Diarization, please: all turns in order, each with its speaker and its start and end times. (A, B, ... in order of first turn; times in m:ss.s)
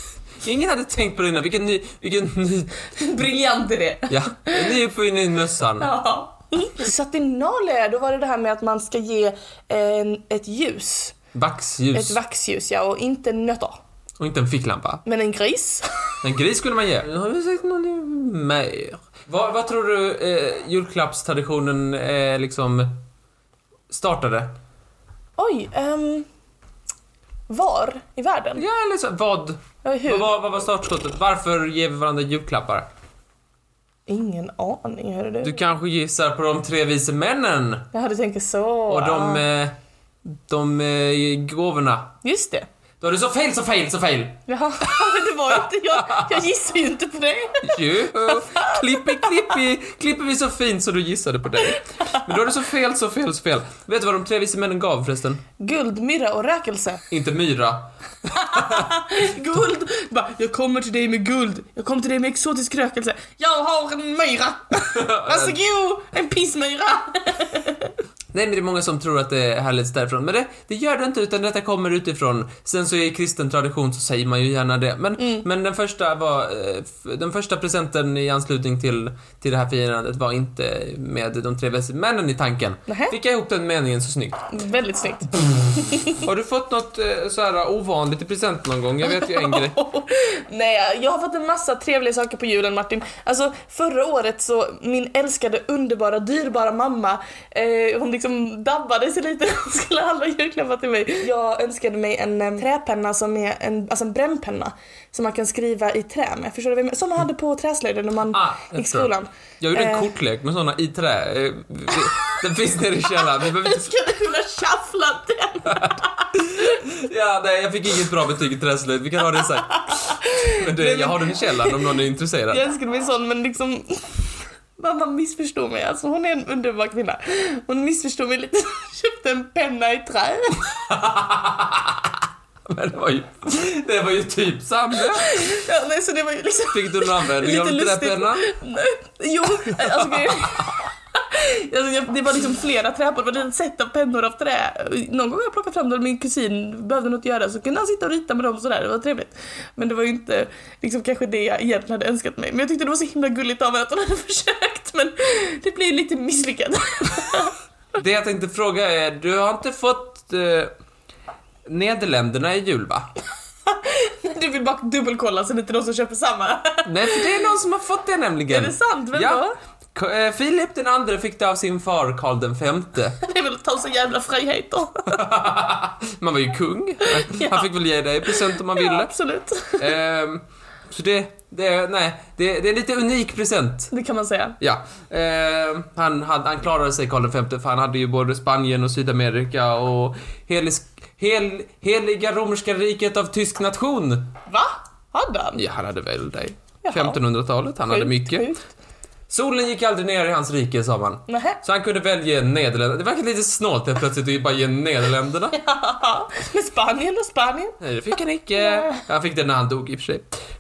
0:00.4-0:02.8 A
0:03.0-0:04.8 B
0:04.1-0:05.9 A
0:05.8-0:11.2 B
0:11.3-0:12.2 A
0:11.9-0:13.8 B
0:14.2-0:15.0 A
0:15.0-0:15.8 B
0:16.2-0:22.9 A
0:23.9-0:24.5 A
0:25.4-0:26.3 B
0:27.5-0:28.6 B
0:28.6-0:32.9 A
0:29.8-0:30.3 B
0:34.1-0:35.6 B
0:35.4-0:37.9 A
0:37.9-0:39.4 B
0:38.9-0:42.1 A
0:42.2-0:42.7 B
0:43.0-0:44.4 A
0:44.5-0:48.7 B
0:46.0-0:46.4 A
0:47.6-0:55.4 A
0:55.6-0:57.0 B
0:57.1-0:58.9 A
0:58.3-1:07.9 B
1:04.9-1:05.6 A
1:08.3-1:24.5 A
1:15.2-1:15.5 B
1:22.9-1:23.2 B
1:24.5-1:26.1 B
1:26.2-1:29.8 A
1:29.0-1:50.1 B
1:48.3-1:53.9 A
1:53.2-1:56.3 B
1:55.7-2:02.6 A
1:59.8-2:02.0 B
2:02.5-2:10.6 B
2:10.9-2:12.0 A
2:12.7-2:15.4 A
2:15.1-2:37.6 B
2:16.7-2:18.5 A
2:38.0-2:40.7 A
2:41.7-2:43.1 A
2:43.7-2:47.5 B
2:46.8-2:53.2 A
2:48.5-2:49.6 B
2:53.2-2:55.2 B
2:55.1-2:59.1 A
2:57.0-2:57.7 B
2:58.2-2:59.9 B
2:59.8-3:03.9 A
3:03.9-3:04.6 B
3:04.6-3:14.3 A
3:14.5-3:15.6 B
3:15.6-3:18.5 A
3:16.8-3:17.2 B
3:17.9-3:18.7 B
3:19.3-3:25.6 A
3:21.3-3:21.6 B
3:25.5-3:27.8 B
3:27.8-3:30.4 A
3:28.6-3:28.9 B